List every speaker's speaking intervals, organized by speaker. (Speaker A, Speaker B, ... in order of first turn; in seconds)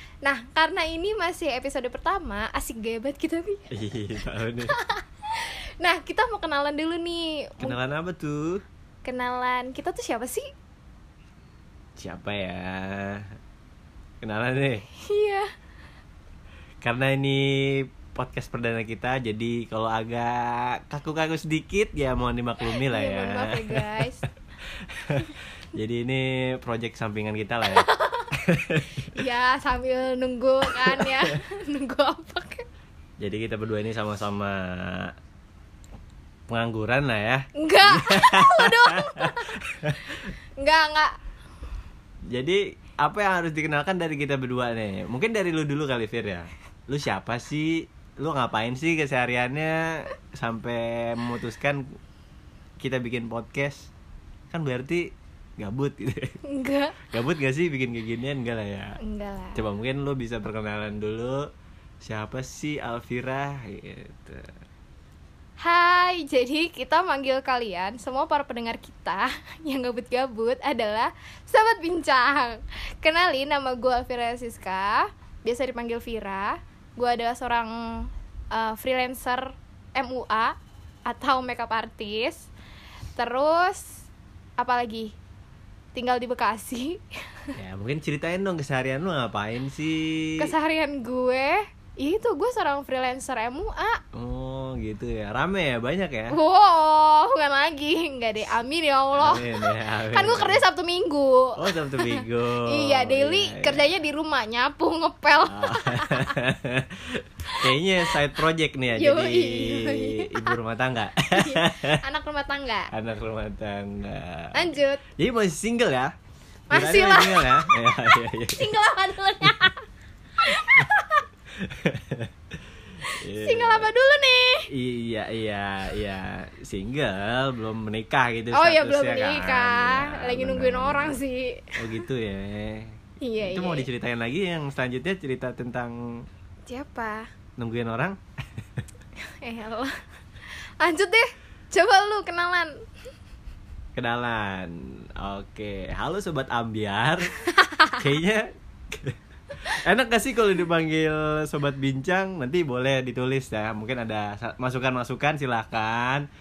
Speaker A: 0.2-3.7, 4.7-7.8, 9.0-10.4, 15.0-15.5, 22.6-24.2, 27.7-28.3, 29.0-32.6, 37.5-39.5, 40.6-41.1, 56.5-57.0, 59.0-59.6, 65.6-80.5, 81.1-82.5, 83.2-84.0, 84.6-85.1, 85.9-87.0, 90.4-94.0, 96.3-106.3, 108.9-110.5, 111.3-112.9, 114.5-115.0, 116.7-119.8, 120.4-121.2, 123.3-124.7, 128.5-131.8, 133.2-133.8, 136.7-137.3, 139.3-139.9, 140.8-142.7, 147.5-148.0
Speaker B: 3.7-4.7, 7.6-8.6, 12.0-13.3, 14.2-14.8, 16.8-24.1, 24.7-27.9, 28.4-29.0, 30.7-31.3, 33.2-35.1, 36.5-40.0, 42.3-52.0, 52.8-53.9, 54.5-56.4, 57.1-59.0, 59.5-61.5, 62.0-64.5, 87.6-90.5, 94.1-96.4, 99.2-100.6, 101.6-103.8, 105.5-112.0, 112.9-116.1, 116.7-118.8, 121.5-122.3, 123.2-123.9, 124.7-131.2, 131.8-136.0, 137.6-138.2, 143.9-147.3, 147.9-156.3